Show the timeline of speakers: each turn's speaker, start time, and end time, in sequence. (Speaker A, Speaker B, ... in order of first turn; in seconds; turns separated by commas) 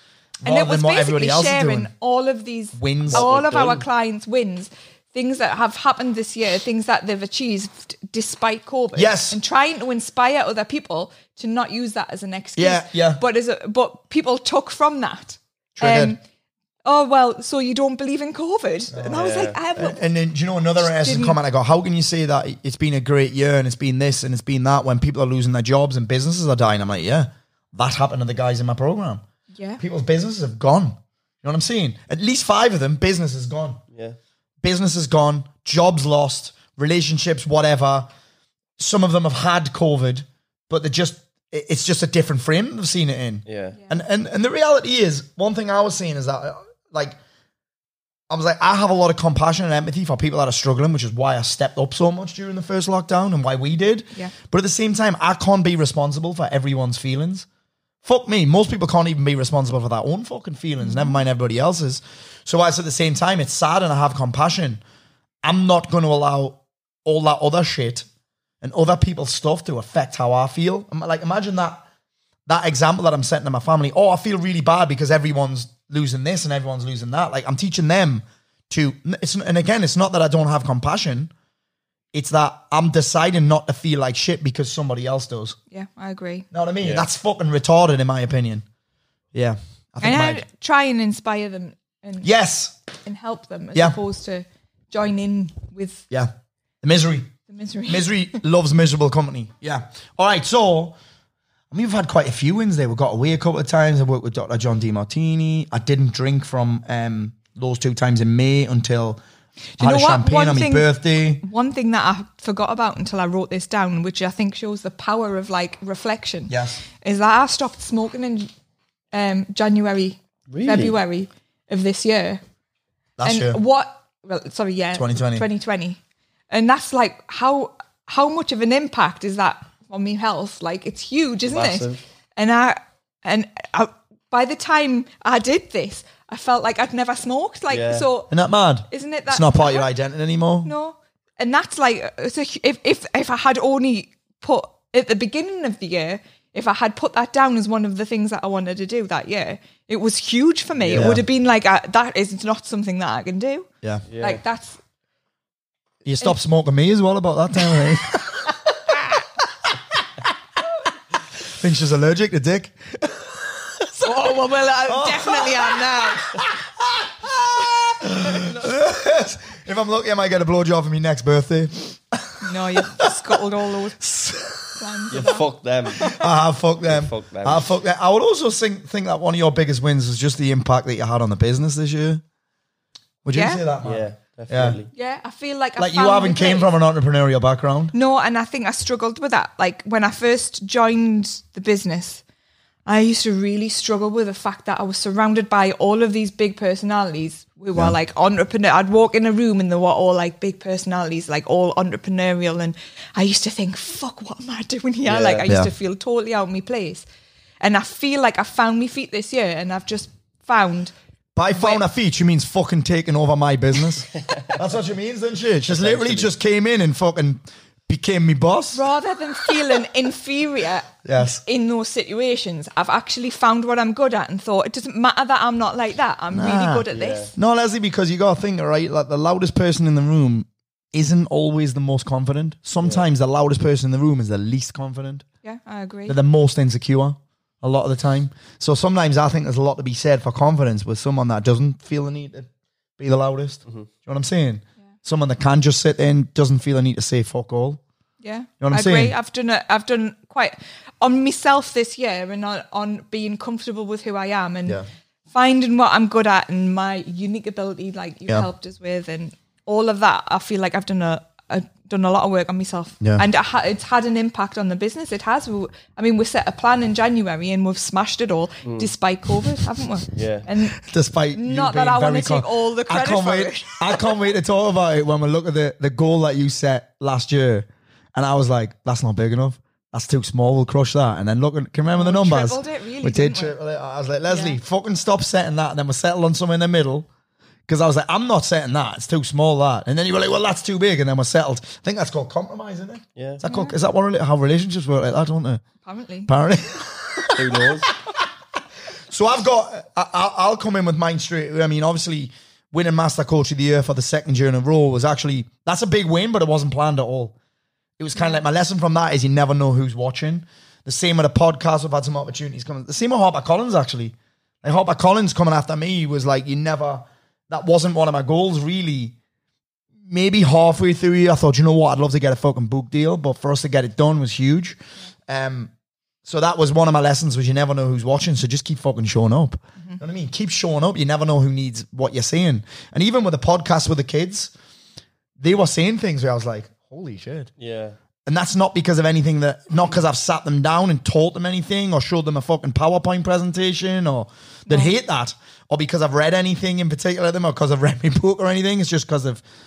Speaker A: 0.4-1.9, Speaker B: 0.4-16.2, Speaker A: 2.7-3.2, Speaker C: 3.1-3.8, Speaker A: 8.9-9.4, Speaker A: 12.6-13.2, Speaker A: 15.8-16.2, Speaker B: 16.8-20.0, Speaker A: 18.9-19.2, Speaker C: 19.1-19.6, Speaker A: 19.8-29.2, Speaker B: 20.8-21.4, Speaker B: 29.5-29.8, Speaker A: 29.8-33.8, Speaker A: 34.6-38.1, Speaker A: 38.8-47.2, Speaker C: 43.5-43.8, Speaker A: 48.3-57.5, Speaker A: 58.0-64.8, Speaker B: 60.8-61.1, Speaker A: 65.4-68.1, Speaker A: 68.6-71.8, Speaker A: 72.5-81.3, Speaker A: 82.1-85.6, Speaker B: 85.7-86.5, Speaker A: 86.5-88.6, Speaker C: 86.8-87.0, Speaker A: 89.3-90.4, Speaker B: 90.0-92.3, Speaker A: 92.2-92.7, Speaker B: 93.0-96.0, Speaker A: 96.8-97.3, Speaker B: 97.5-98.1, Speaker A: 97.9-101.0, Speaker A: 101.7-109.2, Speaker B: 109.8-110.9, Speaker A: 109.8-111.4, Speaker B: 111.4-118.5, Speaker A: 116.5-116.8, Speaker B: 119.1-122.4, Speaker C: 120.5-121.0, Speaker A: 123.2-123.6, Speaker B: 123.2-126.0, Speaker A: 124.9-125.4, Speaker B: 126.5-138.3, Speaker C: 131.5-132.0, Speaker C: 137.7-138.1, Speaker A: 138.3-140.7, Speaker B: 138.9-139.9, Speaker B: 140.6-153.7, Speaker C: 150.8-151.1, Speaker A: 150.9-151.2, Speaker C: 154.1-154.4, Speaker B: 154.2-154.8, Speaker A: 156.0-160.3, Speaker A: 161.5-164.2, Speaker B: 163.9-166.4, Speaker A: 164.8-173.4, Speaker B: 168.2-168.6, Speaker B: 172.4-174.0, Speaker A: 173.9-175.2, Speaker B: 174.8-175.4, Speaker C: 175.1-176.1, Speaker B: 176.0-176.2, Speaker A: 176.0-182.2, Speaker C: 176.8-177.7, Speaker A: 183.2-184.8, Speaker B: 183.3-183.6, Speaker C: 183.8-184.9, Speaker B: 184.9-186.7, Speaker A: 185.8-187.9, Speaker B: 187.9-192.2, Speaker B: 192.8-207.1, Speaker C: 205.1-205.4, Speaker B: 207.6-210.9, Speaker A: 211.3-218.8, Speaker B: 211.5-211.8, Speaker C: 215.6-216.3, Speaker B: 218.7-227.3, Speaker A: 221.0-221.4, Speaker A: 226.3-226.8, Speaker C: 226.9-227.3, Speaker A: 227.3-235.2, Speaker B: 235.4-236.2, Speaker A: 236.1-247.8, Speaker B: 248.2-254.8, Speaker A: 248.6-249.1, Speaker B: 255.3-270.8, Speaker C: 268.6-268.9, Speaker C: 270.1-270.4, Speaker A: 270.8-287.1, Speaker B: 271.3-274.1, Speaker B: 281.9-283.5, Speaker B: 284.3-284.6, Speaker A: 287.7-295.6, Speaker C: 293.1-293.4, Speaker B: 293.4-293.7, Speaker B: 295.8-296.3, Speaker A: 296.3-297.8, Speaker C: 297.4-297.9, Speaker A: 299.1-307.3, Speaker A: 308.0-319.1, Speaker A: 320.0-325.7, Speaker A: 326.2-334.5, Speaker A: 335.4-337.5, Speaker C: 337.6-337.9, Speaker A: 338.2-349.4, Speaker B: 344.7-344.9